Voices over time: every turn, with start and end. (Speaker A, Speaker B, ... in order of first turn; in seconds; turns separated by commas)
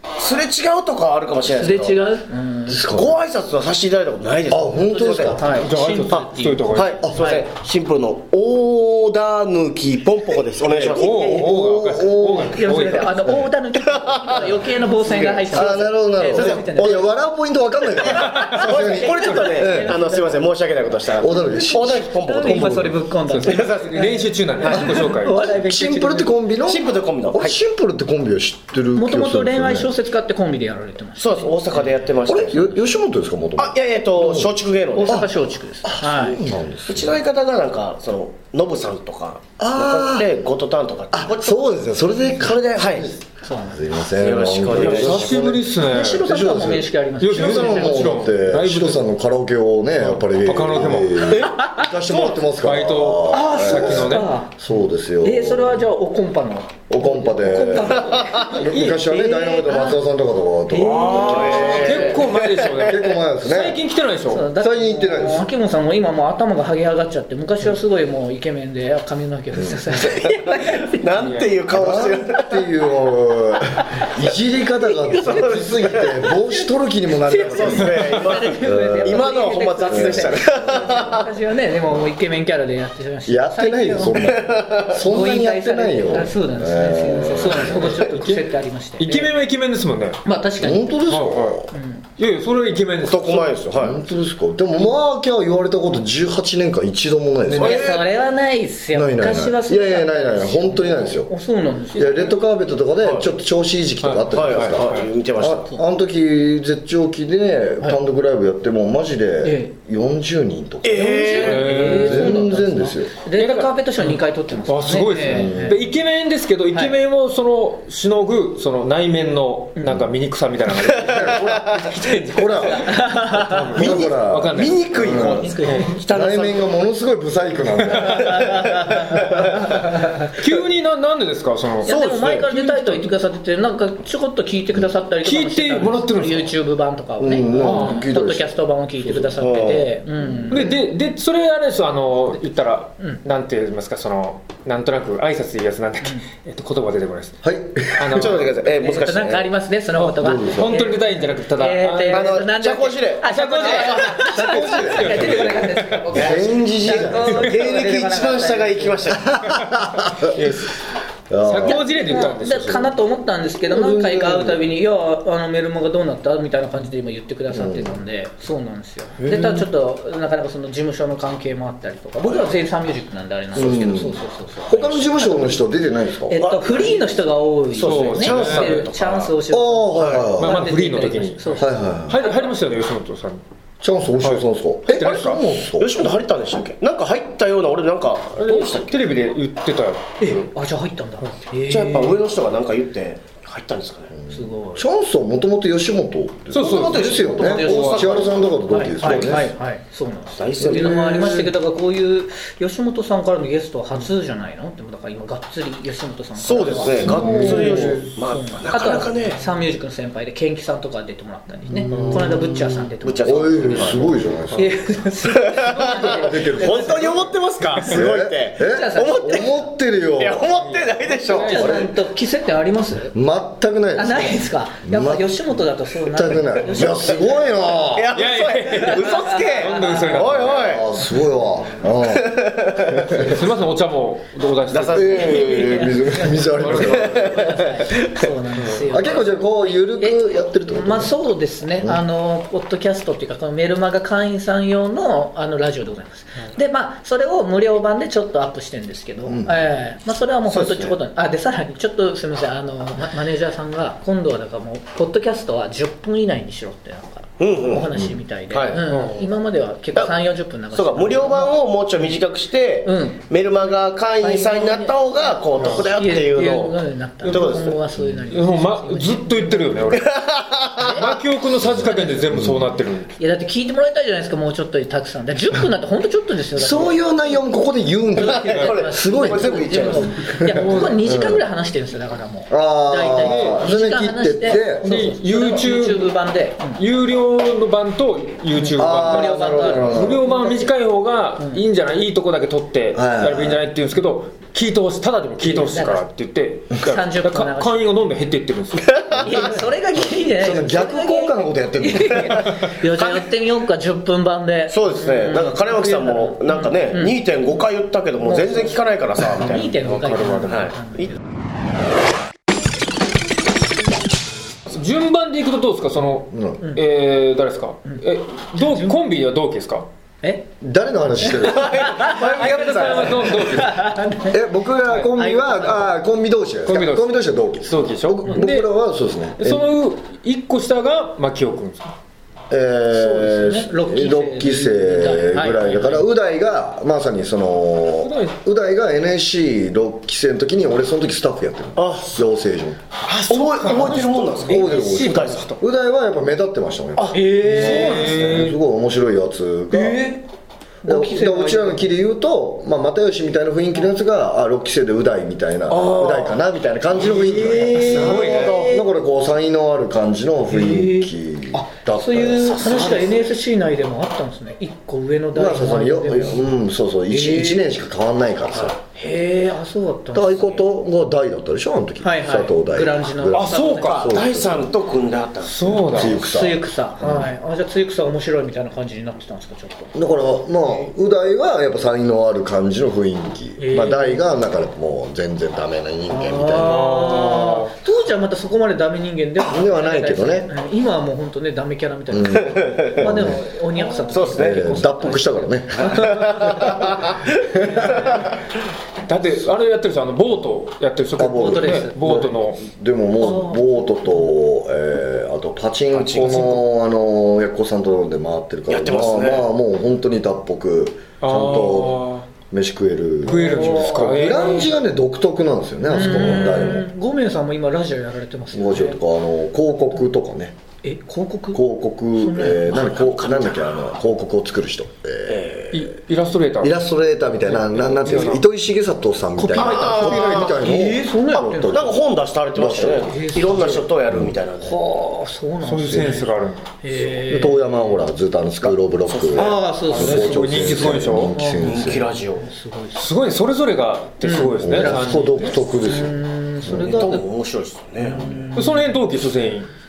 Speaker A: 0.1-2.0, Speaker B: 1.5-3.0, Speaker C: 2.7-3.2, Speaker A: 2.9-11.6, Speaker C: 4.5-5.5, Speaker B: 4.7-7.4, Speaker D: 5.6-7.0, Speaker C: 7.0-7.3, Speaker D: 10.7-13.5, Speaker C: 10.9-12.7, Speaker B: 12.3-17.1, Speaker A: 13.7-17.1, Speaker C: 15.5-20.0, Speaker A: 18.0-23.9, Speaker B: 18.1-26.3, Speaker C: 21.1-23.0, Speaker D: 23.3-25.4, Speaker C: 24.7-29.9, Speaker A: 26.6-27.6, Speaker B: 28.9-32.8, Speaker A: 31.2-32.6, Speaker C: 32.2-35.3, Speaker A: 33.6-35.2, Speaker B: 34.9-36.4, Speaker C: 35.8-37.2, Speaker A: 36.9-43.1, Speaker C: 39.6-40.3, Speaker C: 41.1-55.8, Speaker B: 43.4-43.8, Speaker A: 44.2-45.4, Speaker D: 44.7-46.2, Speaker B: 45.9-48.2, Speaker D: 47.2-49.1, Speaker D: 50.0-51.5, Speaker A: 51.3-52.4, Speaker B: 51.5-51.9, Speaker D: 52.0-54.3, Speaker B: 53.3-54.6, Speaker B: 55.2-60.0, Speaker C: 56.9-62.2, Speaker A: 58.1-58.5, Speaker D: 58.4-59.4, Speaker B: 60.7-62.2, Speaker D: 60.8-64.5, Speaker A: 61.1-62.9, Speaker C: 62.8-63.8, Speaker B: 64.3-71.4, Speaker C: 64.5-65.5, Speaker A: 70.1-70.5, Speaker A: 71.0-72.7, Speaker D: 71.2-71.6, Speaker C: 71.7-79.3, Speaker B: 74.9-84.3, Speaker A: 75.2-76.2, Speaker A: 77.4-81.3, Speaker C: 79.9-81.1, Speaker C: 83.2-88.0, Speaker A: 84.1-85.0, Speaker B: 84.9-89.3, Speaker A: 87.7-88.4, Speaker D: 89.0-90.2, Speaker B: 90.2-91.0, Speaker C: 90.6-91.7, Speaker D: 91.1-91.6, Speaker B: 91.7-92.0, Speaker D: 92.2-93.6, Speaker A: 93.0-94.0, Speaker C: 93.8-97.9, Speaker D: 97.5-97.8, Speaker A: 97.5-98.0, Speaker B: 97.6-102.3, Speaker C: 98.9-101.3, Speaker C: 101.9-113.1, Speaker D: 102.0-102.3, Speaker A: 103.0-103.3, Speaker D: 104.0-105.1, Speaker A: 104.3-105.7, Speaker B: 109.4-109.7, Speaker A: 110.8-111.8, Speaker B: 110.9-115.8, Speaker D: 111.3-112.4, Speaker D: 113.4-125.9, Speaker C: 115.3-115.8, Speaker B: 116.7-117.0, Speaker A: 120.8-121.8, Speaker C: 121.0-122.9, Speaker B: 122.6-123.9, Speaker C: 123.7-125.5, Speaker A: 123.7-126.8, Speaker B: 125.3-126.0, Speaker C: 126.1-129.5, Speaker D: 127.7-128.3, Speaker A: 128.3-129.5, Speaker B: 128.3-130.2, Speaker D: 130.3-133.1, Speaker B: 131.8-140.7, Speaker A: 131.8-132.4, Speaker D: 135.2-136.5, Speaker C: 137.2-139.5, Speaker D: 137.6-138.0, Speaker A: 139.4-139.9, Speaker D: 140.5-147.4, Speaker C: 147.4-148.3, Speaker D: 147.9-148.7, Speaker A: 148.1-149.5, Speaker B: 148.7-159.2, Speaker D: 149.9-152.4, Speaker C: 150.2-150.8, Speaker A: 152.1-154.4, Speaker D: 153.2-156.2, Speaker C: 154.3-155.5, Speaker C: 156.1-157.5, Speaker A: 156.1-156.5, Speaker A: 157.2-159.4, Speaker C: 159.1-160.4, Speaker D: 160.1-160.9, Speaker C: 161.3-161.8, Speaker D: 161.4-162.9, Speaker B: 161.6-182.5, Speaker C: 163.7-164.6, Speaker C: 167.5-168.0, Speaker D: 169.2-169.6, Speaker C: 173.5-176.4, Speaker A: 176.3-177.2, Speaker A: 177.7-179.3, Speaker D: 177.8-178.9, Speaker C: 179.5-180.6, Speaker D: 179.9-183.4, Speaker C: 181.5-182.2, Speaker C: 183.8-186.1, Speaker D: 184.2-185.5, Speaker A: 185.8-189.0, Speaker D: 188.3-190.4, Speaker B: 190.2-192.2, Speaker A: 191.7-194.1, Speaker C: 194.1-199.5, Speaker B: 194.3-194.8, Speaker D: 196.5-197.1, Speaker A: 196.5-199.5, Speaker B: 196.8-218.0, Speaker D: 197.6-198.1, Speaker A: 200.3-201.4, Speaker C: 200.6-201.5, Speaker A: 206.4-209.4, Speaker C: 206.9-208.1, Speaker D: 207.0-208.0, Speaker C: 211.7-214.8, Speaker A: 213.0-214.2, Speaker A: 215.2-219.6, Speaker C: 215.8-217.1, Speaker C: 217.9-220.5, Speaker B: 218.6-219.6, Speaker A: 220.2-221.9, Speaker D: 220.5-221.7, Speaker B: 221.3-223.1, Speaker C: 221.6-221.9, Speaker C: 223.1-225.4, Speaker B: 223.9-227.4, Speaker C: 226.1-228.1, Speaker A: 226.7-227.3, Speaker A: 227.9-230.9, Speaker D: 228.1-230.7, Speaker B: 228.7-230.5, Speaker C: 230.7-233.5, Speaker A: 232.0-233.3, Speaker D: 233.2-235.3, Speaker A: 234.7-236.0, Speaker C: 234.9-237.7, Speaker B: 235.2-262.2, Speaker D: 236.6-237.0, Speaker A: 236.8-238.2, Speaker C: 238.9-241.2, Speaker C: 249.2-249.6, Speaker A: 250.5-250.9, Speaker A: 257.4-257.9, Speaker A: 258.5-258.8, Speaker D: 258.9-259.3, Speaker A: 260.7-267.8, Speaker B: 262.8-263.2, Speaker B: 264.1-270.0, Speaker D: 265.6-265.9, Speaker C: 268.0-268.2, Speaker D: 268.3-270.1, Speaker A: 269.9-271.1, Speaker D: 270.8-273.1, Speaker B: 270.9-271.2, Speaker B: 271.9-272.3, Speaker C: 272.3-272.7, Speaker B: 273.2-277.4, Speaker C: 276.5-281.4, Speaker B: 278.1-286.8, Speaker A: 278.2-280.4, Speaker D: 280.6-281.0, Speaker C: 282.5-284.9, Speaker D: 283.2-283.6, Speaker D: 284.8-286.1, Speaker D: 286.7-299.5, Speaker B: 288.5-290.7, Speaker C: 288.7-290.2, Speaker B: 291.4-291.6, Speaker C: 292.9-293.6, Speaker B: 295.4-296.1, Speaker B: 296.7-298.0, Speaker B: 299.1-307.2, Speaker C: 300.4-302.4, Speaker A: 302.1-303.2, Speaker A: 304.7-309.8, Speaker B: 308.2-311.2, Speaker D: 309.6-310.7, Speaker A: 310.5-311.1, Speaker D: 314.7-319.9, Speaker C: 316.3-316.6, Speaker B: 317.9-319.0, Speaker B: 320.2-320.5, Speaker C: 320.6-321.8, Speaker B: 321.2-326.0, Speaker A: 321.3-323.4, Speaker D: 322.3-323.8, Speaker C: 324.3-329.7, Speaker D: 326.6-328.7, Speaker D: 329.4-331.9, Speaker C: 332.5-342.8, Speaker B: 332.9-336.1, Speaker D: 338.0-338.4, Speaker A: 341.8-342.2, Speaker D: 343.0-345.6, Speaker A: 343.3-345.5, Speaker C: 344.4-350.1, Speaker D: 347.0-348.6, Speaker B: 347.1-348.4, Speaker B: 349.7-350.2, Speaker B: 350.8-351.9, Speaker C: 350.9-362.7, Speaker A: 355.7-356.2, Speaker D: 356.9-358.7, Speaker B: 357.3-358.8, Speaker A: 357.8-358.8, Speaker B: 360.5-366.5, Speaker A: 362.5-363.2, Speaker C: 365.3-368.8, Speaker B: 367.1-367.7, Speaker B: 368.9-370.6, Speaker C: 370.1-374.7, Speaker B: 372.0-374.1, Speaker D: 373.3-374.0, Speaker A: 373.7-375.8, Speaker D: 375.4-376.2, Speaker B: 375.7-379.9, Speaker C: 375.9-377.3, Speaker C: 379.9-386.8, Speaker B: 380.6-380.9, Speaker B: 383.6-384.2, Speaker B: 386.1-396.9, Speaker D: 386.6-387.7, Speaker C: 389.4-390.5, Speaker C: 392.1-393.4, Speaker A: 392.4-393.1, Speaker A: 393.8-394.7, Speaker C: 394.4-398.3, Speaker A: 395.9-397.3, Speaker B: 397.6-398.2, Speaker A: 398.1-398.4, Speaker D: 399.0-402.6, Speaker C: 401.2-416.9, Speaker B: 401.3-402.2, Speaker B: 403.2-404.2, Speaker A: 405.9-406.5, Speaker D: 406.1-406.6, Speaker A: 408.7-409.5, Speaker D: 411.2-412.2, Speaker D: 413.2-414.8, Speaker B: 413.2-414.7, Speaker B: 415.9-419.0, Speaker D: 416.0-416.6, Speaker C: 418.5-420.6, Speaker B: 420.8-421.6, Speaker C: 421.5-425.4, Speaker B: 422.1-422.9, Speaker A: 422.5-424.0, Speaker A: 425.3-425.8, Speaker D: 425.7-426.8, Speaker C: 426.6-432.0, Speaker D: 427.4-428.4, Speaker B: 429.4-431.8, Speaker A: 429.5-430.6, Speaker D: 429.6-430.6, Speaker A: 431.7-434.8, Speaker C: 432.5-434.4, Speaker B: 432.9-433.9, Speaker B: 434.6-438.0, Speaker D: 435.6-436.7, Speaker C: 435.9-436.2, Speaker C: 437.3-442.1, Speaker A: 438.6-440.4, Speaker B: 439.3-443.1, Speaker D: 439.9-441.4, Speaker A: 441.6-442.5, Speaker D: 442.9-446.0, Speaker B: 444.2-447.3, Speaker C: 444.6-447.1, Speaker A: 446.7-448.4, Speaker B: 448.0-448.9, Speaker D: 448.5-449.7